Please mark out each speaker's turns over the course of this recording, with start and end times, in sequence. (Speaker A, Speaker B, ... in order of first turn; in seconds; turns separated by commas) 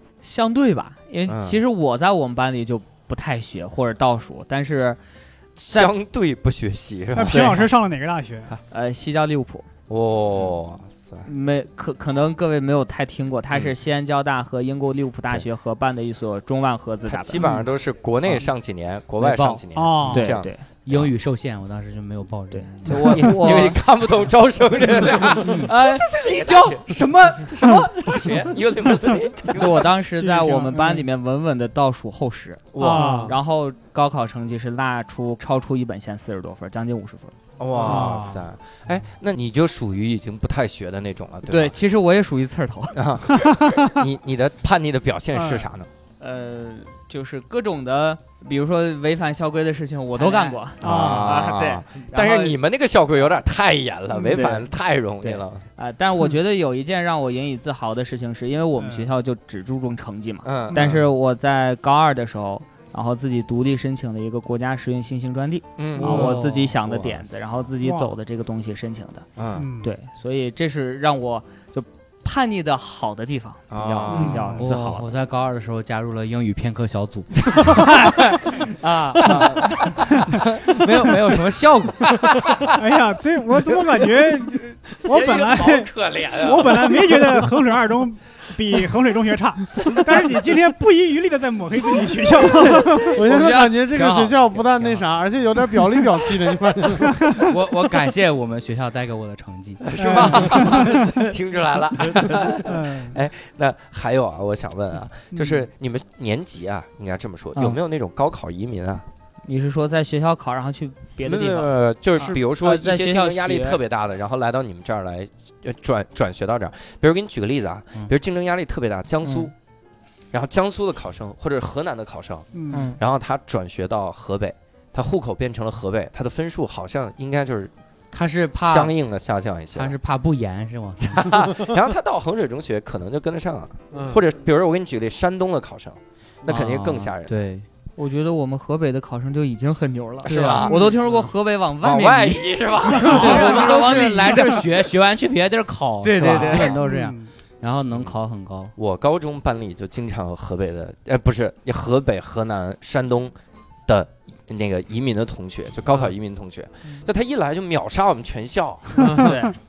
Speaker A: 0.2-5.0, Speaker B: 1.3-1.6, Speaker B: 5.5-7.7, Speaker C: 7.1-8.5, Speaker A: 8.7-9.7, Speaker B: 9.9-11.2, Speaker A: 11.2-17.4, Speaker B: 17.1-21.1, Speaker C: 17.4-17.7, Speaker D: 19.2-19.6, Speaker C: 19.7-20.3, Speaker A: 20.1-20.6, Speaker D: 20.9-23.7, Speaker A: 22.5-23.8, Speaker B: 22.9-29.9, Speaker D: 25.4-28.3, Speaker A: 29.5-37.3, Speaker C: 30.2-31.0, Speaker B: 32.7-33.2, Speaker C: 32.8-33.3, Speaker E: 33.0-33.3, Speaker B: 37.6-41.7, Speaker C: 37.8-38.5, Speaker A: 41.5-43.0, Speaker B: 42.9-45.9, Speaker C: 43.5-43.9, Speaker C: 45.3-45.7, Speaker A: 46.2-52.6, Speaker D: 50.2-50.5, Speaker C: 50.8-51.5, Speaker B: 50.8-55.6, Speaker A: 54.2-54.7, Speaker A: 55.2-69.2, Speaker C: 58.8-59.1, Speaker B: 60.4-61.0, Speaker B: 65.8-66.3, Speaker D: 66.0-67.2, Speaker C: 66.0-66.3, Speaker C: 67.8-68.1, Speaker B: 69.4-69.7, Speaker C: 69.5-69.9, Speaker A: 69.8-75.1, Speaker B: 73.7-74.6, Speaker C: 74.1-74.7, Speaker D: 74.6-82.1, Speaker C: 77.7-78.3, Speaker B: 82.0-82.7, Speaker C: 82.7-93.2, Speaker B: 85.0-87.4, Speaker E: 93.0-97.2, Speaker D: 93.2-95.0, Speaker D: 97.4-101.0, Speaker B: 99.9-109.0, Speaker C: 100.0-101.0, Speaker C: 102.6-103.2, Speaker C: 105.3-105.7, Speaker A: 109.4-113.8, Speaker B: 111.2-119.5, Speaker A: 119.2-119.5, Speaker B: 120.3-127.7, Speaker C: 122.5-122.9, Speaker A: 122.7-123.0, Speaker D: 128.1-128.9, Speaker B: 128.5-129.9, Speaker D: 129.7-131.7, Speaker B: 131.1-137.3, Speaker E: 133.9-134.2, Speaker D: 136.4-137.7, Speaker A: 137.9-144.7, Speaker B: 140.2-140.9, Speaker C: 140.7-140.9, Speaker B: 141.8-143.6, Speaker D: 143.0-148.7, Speaker C: 143.1-143.4, Speaker A: 146.0-146.7, Speaker C: 146.5-147.3, Speaker B: 148.8-153.3, Speaker B: 153.9-159.3, Speaker E: 159.0-159.3, Speaker A: 159.2-159.5